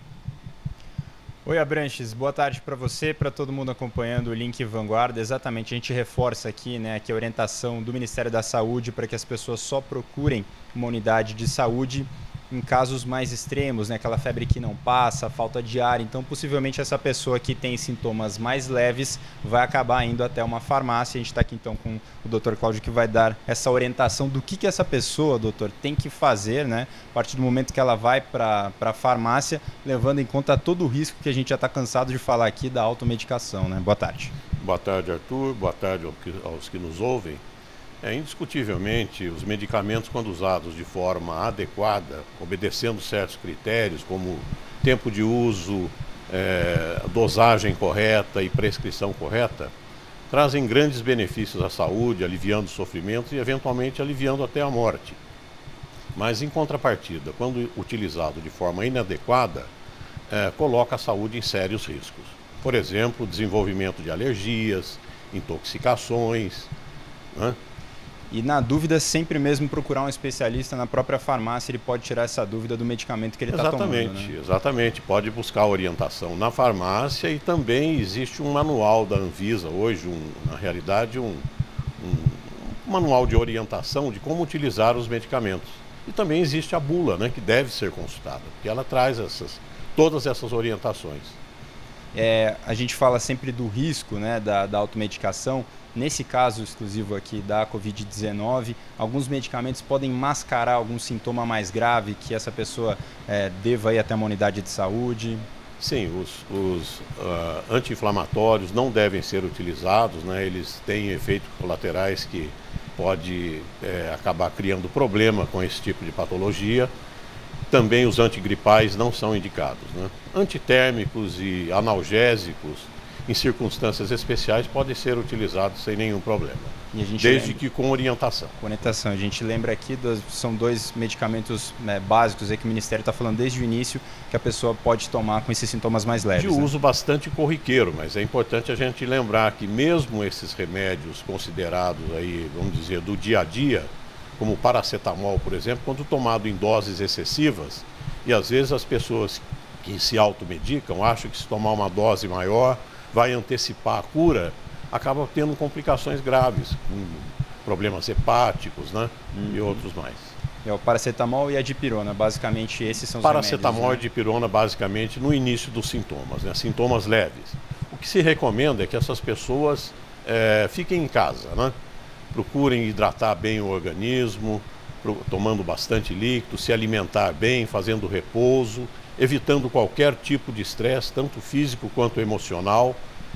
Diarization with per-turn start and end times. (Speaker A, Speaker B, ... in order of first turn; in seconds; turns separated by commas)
Speaker A: 1.4-34.3, Speaker B: 34.6-37.4, Speaker B: 38.0-49.7, Speaker B: 50.3-55.2, Speaker B: 56.1-59.7, Speaker B: 60.3-66.7, Speaker A: 68.3-74.3, Speaker B: 73.5-81.5, Speaker B: 82.0-91.4, Speaker A: 92.1-105.4, Speaker B: 105.8-116.9, Speaker B: 117.7-128.6, Speaker A: 126.9-127.6, Speaker A: 128.6-136.7, Speaker B: 136.3-160.3, Speaker A: 159.3-159.6, Speaker A: 160.6-164.0, Speaker B: 163.2-171.7, Speaker B: 172.3-183.0